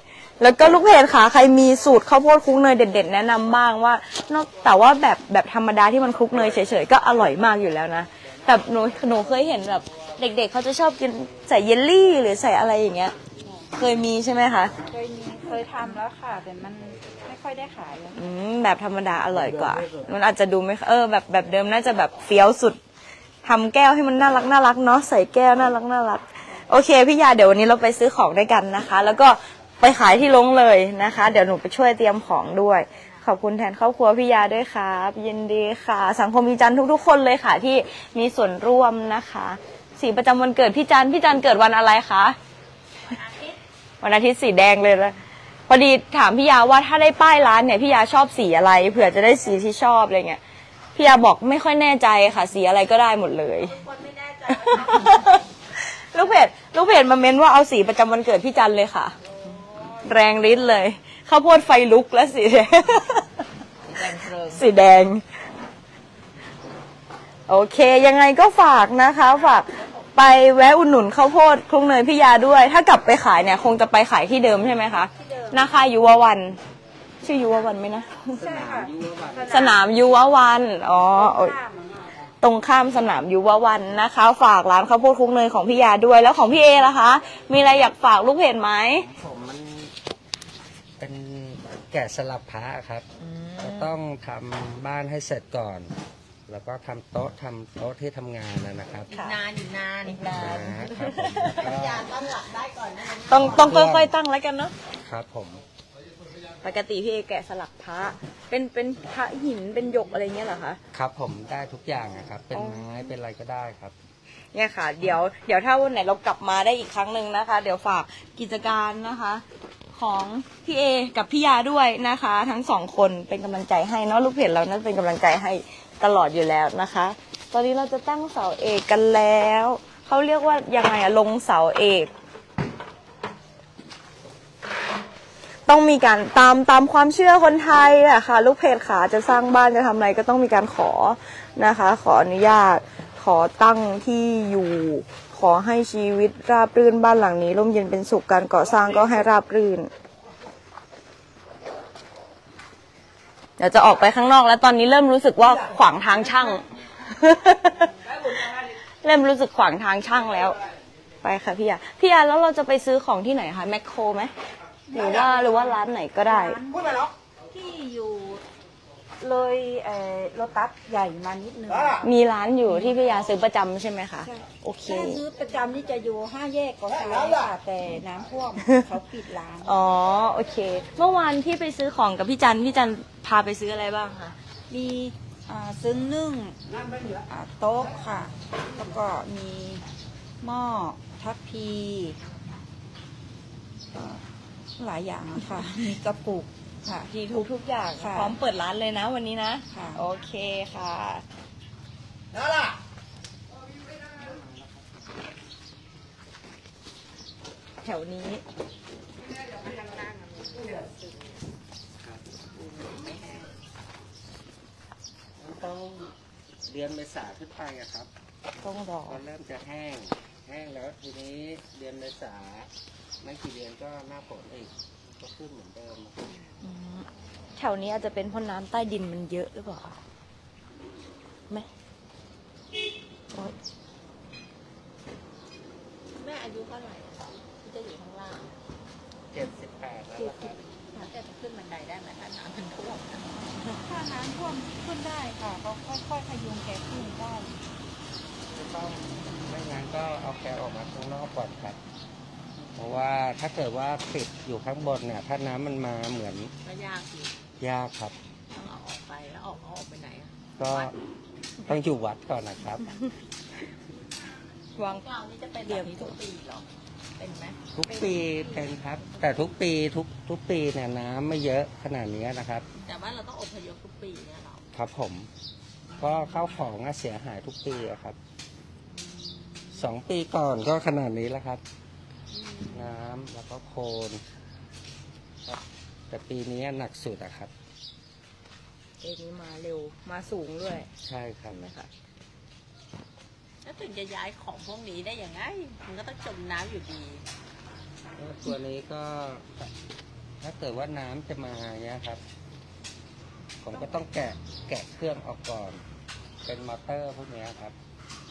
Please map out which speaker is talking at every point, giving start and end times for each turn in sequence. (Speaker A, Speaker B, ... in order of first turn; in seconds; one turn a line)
Speaker A: 0.4-13.2
Speaker B: 13.4-13.7
Speaker A: 13.7-14.7
Speaker B: 14.9-18.2
Speaker A: 18.1-22.8
Speaker A: 23.4-42.4
Speaker C: 32.7-33.3
Speaker C: 43.0-43.6
Speaker A: 44.0-45.2
Speaker A: 45.7-50.4
Speaker A: 51.0-53.8
Speaker C: 53.6-55.5
Speaker A: 54.6-59.2
Speaker A: 60.0-63.4
Speaker C: 63.9-64.7
Speaker A: 64.5-65.2
Speaker A: 67.5-76.6
Speaker C: 69.3-70.3
Speaker B: 75.2-75.6
Speaker A: 77.2-78.4
Speaker D: 78.4-79.7
Speaker B: 78.4-79.8
Speaker A: 79.5-81.6
Speaker B: 81.2-82.0
Speaker A: 82.4-89.1
Speaker D: 89.0-89.9
Speaker D: 91.0-93.1
Speaker A: 93.2-93.9
Speaker D: 93.6-95.9
Speaker D: 96.5-99.1
Speaker C: 99.1-103.8
Speaker A: 99.1-99.4
Speaker A: 100.0-101.7
Speaker D: 100.3-102.1
Speaker A: 103.3-104.8
Speaker D: 103.4-104.1
Speaker D: 105.0-105.6
Speaker A: 106.6-110.8
Speaker D: 110.9-113.9
Speaker A: 112.5-112.9
Speaker A: 114.5-132.1
Speaker A: 135.7-149.9
Speaker A: 153.6-157.9
Speaker A: 159.0-160.6
Speaker A: 161.2-164.3
Speaker B: 164.9-168.4
Speaker A: 164.9-166.6
Speaker B: 169.2-172.1
Speaker A: 172.0-175.2
Speaker B: 172.7-172.9
Speaker B: 174.2-179.8
Speaker A: 179.6-184.4
Speaker B: 184.7-186.6
Speaker B: 187.3-189.8
Speaker B: 190.4-192.2
Speaker B: 193.9-194.2
Speaker B: 194.8-197.1
Speaker A: 197.1-201.2
Speaker B: 198.0-198.3
Speaker B: 199.7-200.0
Speaker D: 204.2-204.9
Speaker A: 207.8-208.4
Speaker C: 209.3-211.4
Speaker C: 212.5-213.5
Speaker D: 215.4-216.1
Speaker D: 216.7-218.1
Speaker A: 218.6-219.2
Speaker D: 219.1-222.7
Speaker D: 223.2-226.2
Speaker C: 226.2-226.6
Speaker A: 226.6-230.0
Speaker C: 236.1-238.6
Speaker D: 239.3-240.7
Speaker C: 240.2-243.4
Speaker B: 243.7-247.6
Speaker D: 248.6-251.8
Speaker D: 252.8-256.5
Speaker C: 256.6-257.3
Speaker D: 257.6-258.1
Speaker C: 258.5-260.9
Speaker D: 260.6-260.9
Speaker D: 261.6-263.0
Speaker A: 264.8-265.0
Speaker C: 264.9-266.7
Speaker A: 265.7-266.1
Speaker C: 267.2-269.6
Speaker D: 267.7-272.7
Speaker C: 272.8-274.6
Speaker D: 274.7-275.3
Speaker C: 276.0-276.6
Speaker D: 276.0-278.2
Speaker D: 279.7-281.6
Speaker C: 282.3-282.9
Speaker D: 282.7-284.2
Speaker D: 285.4-287.5
Speaker A: 289.0-290.9
Speaker D: 291.1-291.6
Speaker A: 291.5-291.9
Speaker C: 293.6-297.2
Speaker D: 298.2-299.7
Speaker D: 300.4-302.2
Speaker D: 303.6-305.8
Speaker C: 303.7-304.1
Speaker D: 306.4-307.8